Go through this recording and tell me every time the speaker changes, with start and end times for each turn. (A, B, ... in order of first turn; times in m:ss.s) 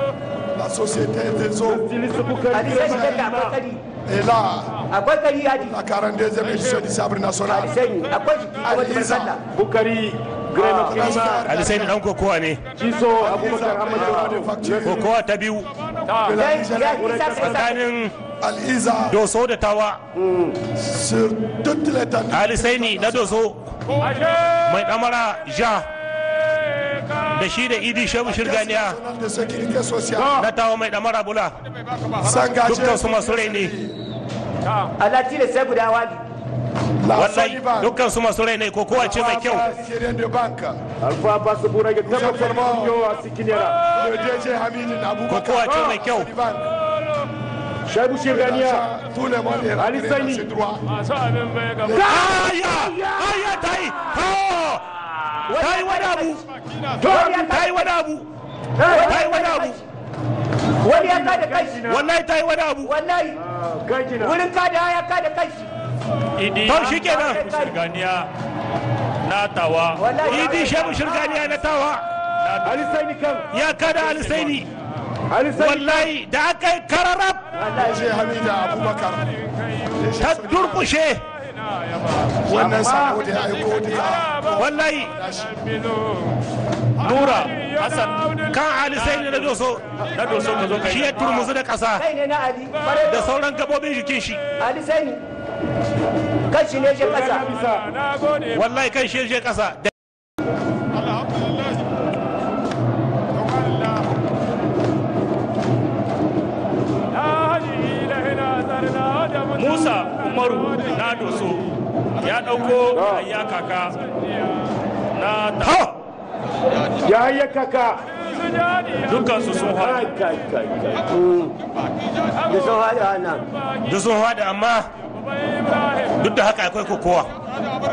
0:00.5-0:01.9 A
0:01.6-0:03.6 B
0:02.5-0:03.8 C
0:02.9-0:03.2 A
0:04.1-0:04.8 A
0:04.9-0:05.8 C
0:05.6-0:07.8 A
0:07.5-0:09.4 C
0:08.6-0:09.4 A
0:09.5-0:11.5 B
0:10.6-0:11.0 C
0:10.7-0:12.0 A
0:11.4-0:12.7 D
0:12.8-0:15.0 B
0:13.0-0:15.1 A
0:14.8-0:15.7 D
0:16.2-0:17.3 A
0:16.3-0:17.8 C
0:17.0-0:17.8 B
0:17.4-0:18.2 D
0:18.4-0:19.2 A
0:19.1-0:20.0 D
0:20.2-0:20.6 B
0:20.6-0:23.4 A
0:22.3-0:23.7 D
0:24.4-0:25.9 D
0:27.2-0:29.0 D
0:28.3-0:30.5 A
0:30.2-0:30.4 B
0:30.3-0:31.6 D
0:32.2-0:34.0 A
0:32.6-0:33.7 D
0:35.0-0:36.2 C
0:37.0-0:38.0 A
0:37.1-0:39.7 D
0:38.9-0:40.8 A
0:41.0-0:43.9 B
0:42.0-0:43.0 A
0:43.8-0:46.7 A
0:45.3-0:46.3 D
0:45.7-0:46.0 B
0:47.8-0:48.9 B
0:48.3-0:50.8 A
0:49.8-0:50.5 B
0:51.8-0:52.3 A
0:51.9-0:53.2 B
0:51.9-0:56.4 D
0:53.0-0:54.0 C
0:55.5-0:56.4 C
0:57.0-0:57.9 C
0:57.0-0:57.6 B
0:57.5-0:58.3 D
0:58.8-0:59.8 C
0:59.0-0:59.8 D
1:00.8-1:01.9 C
1:00.8-1:02.1 B
1:01.9-1:02.9 D
1:02.8-1:03.4 C
1:03.4-1:04.4 B
1:04.2-1:05.7 C
1:06.4-1:08.3 E
1:06.7-1:07.4 D
1:06.9-1:07.8 C
1:09.2-1:10.2 E
1:10.0-1:11.4 C
1:10.2-1:12.0 D
1:12.4-1:12.8 E
1:12.6-1:13.5 B
1:13.5-1:14.7 D
1:15.3-1:16.1 B
1:15.5-1:17.4 D
1:17.6-1:18.1 C
1:17.8-1:20.8 A
1:20.2-1:21.2 D
1:22.4-1:25.6 A
1:22.6-1:23.1 B
1:24.6-1:25.2 D
1:27.0-1:28.4 E
1:28.4-1:29.8 D
1:30.0-1:31.4 E
1:30.8-1:32.0 D
1:32.0-1:33.3 C
1:33.0-1:34.4 D
1:34.6-1:35.2 C
1:36.5-1:37.5 C
1:37.0-1:37.9 B
1:38.5-1:39.9 D
1:49.4-1:54.0 E
1:52.9-1:53.3 B
1:55.2-1:55.8 E
1:55.6-1:55.9 D
1:57.0-1:58.0 B
1:58.9-2:00.1 E
1:59.7-2:01.0 B
2:01.1-2:01.6 C
2:02.5-2:03.4 C
2:03.8-2:04.9 D
2:06.1-2:07.3 D